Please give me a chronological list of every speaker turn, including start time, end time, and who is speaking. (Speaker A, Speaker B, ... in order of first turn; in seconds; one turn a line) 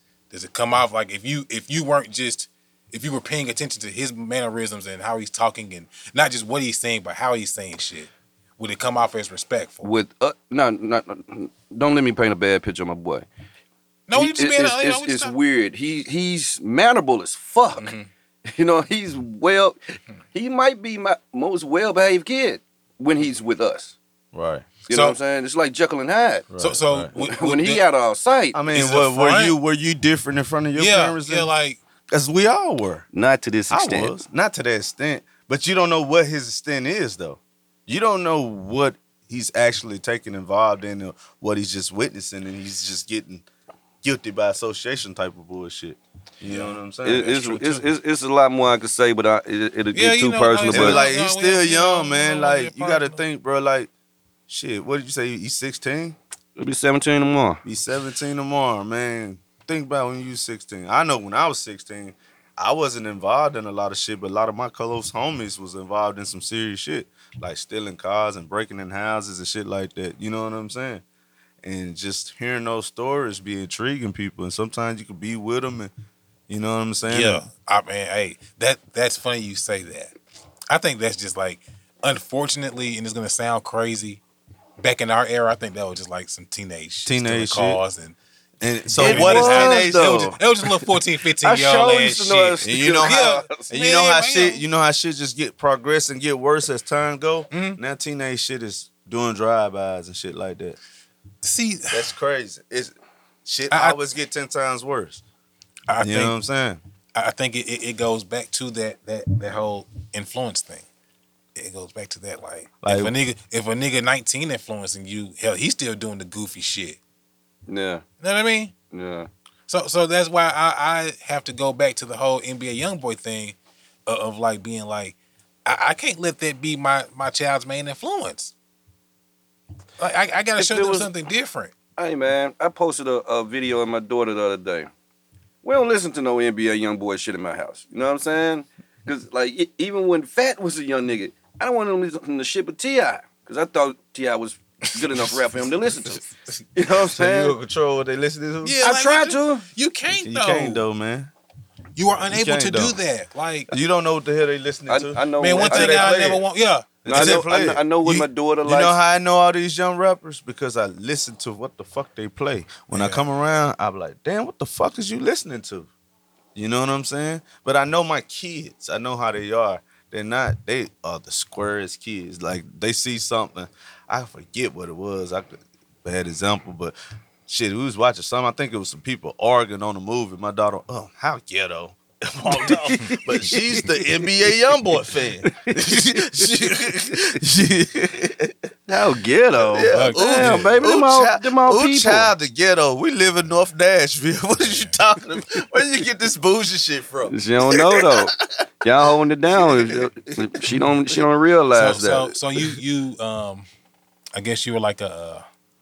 Speaker A: 0.3-9.9
Speaker B: 9.8-13.3
Speaker A: 14.1-15.3
Speaker B: 14.2-17.9
Speaker A: 17.8-18.1
Speaker B: 18.5-24.0
Speaker C: 24.3-24.7
Speaker B: 24.9-26.5
Speaker A: 24.9-25.2
Speaker C: 26.5-27.1
Speaker A: 26.6-27.8
Speaker B: 27.2-28.6
Speaker C: 28.5-31.5
Speaker A: 28.7-29.6
Speaker A: 30.8-31.8
Speaker C: 32.1-33.0
Speaker B: 33.1-34.2
Speaker C: 33.7-43.5
Speaker C: 44.0-47.5
Speaker A: 46.5-46.8
Speaker B: 47.0-51.1
Speaker A: 47.4-47.8
Speaker A: 49.9-53.2
Speaker C: 50.7-53.9
Speaker C: 54.5-56.2
Speaker B: 56.6-57.6
Speaker C: 57.6-71.0
Speaker C: 71.6-75.9
Speaker C: 76.5-77.4
Speaker A: 77.1-80.1
Speaker A: 80.7-84.2
Speaker A: 84.8-88.2
Speaker C: 87.1-87.8
Speaker C: 88.6-90.3
Speaker A: 88.9-94.6
Speaker B: 89.0-90.9
Speaker B: 91.4-93.7
Speaker C: 92.6-100.8
Speaker A: 97.5-97.8
Speaker A: 101.4-102.1
Speaker C: 101.9-102.9
Speaker C: 103.5-105.2
Speaker A: 103.7-104.0
Speaker A: 105.9-106.3
Speaker C: 106.0-106.8
Speaker A: 107.2-110.8
Speaker A: 111.5-117.0
Speaker C: 112.8-113.1
Speaker B: 117.7-118.0
Speaker A: 118.2-118.8
Speaker B: 118.9-119.3
Speaker A: 119.7-128.5
Speaker A: 130.0-131.7
Speaker B: 130.6-131.1
Speaker B: 132.0-134.9
Speaker B: 135.6-147.6
Speaker C: 146.8-148.8
Speaker A: 148.6-150.8
Speaker B: 148.8-149.7
Speaker C: 150.2-151.3
Speaker A: 152.0-153.7
Speaker C: 152.2-153.0
Speaker C: 153.7-156.4
Speaker B: 154.9-156.2
Speaker A: 155.4-157.5
Speaker C: 157.0-165.9
Speaker B: 157.1-158.9
Speaker A: 162.9-163.2
Speaker C: 166.6-176.9
Speaker C: 177.5-188.7
Speaker A: 182.5-183.2
Speaker B: 182.7-183.8
Speaker B: 185.4-187.3
Speaker B: 188.9-192.3
Speaker C: 189.6-198.7
Speaker A: 189.9-190.8
Speaker B: 197.3-202.4
Speaker C: 199.5-201.2
Speaker A: 201.7-203.7
Speaker A: 204.4-205.4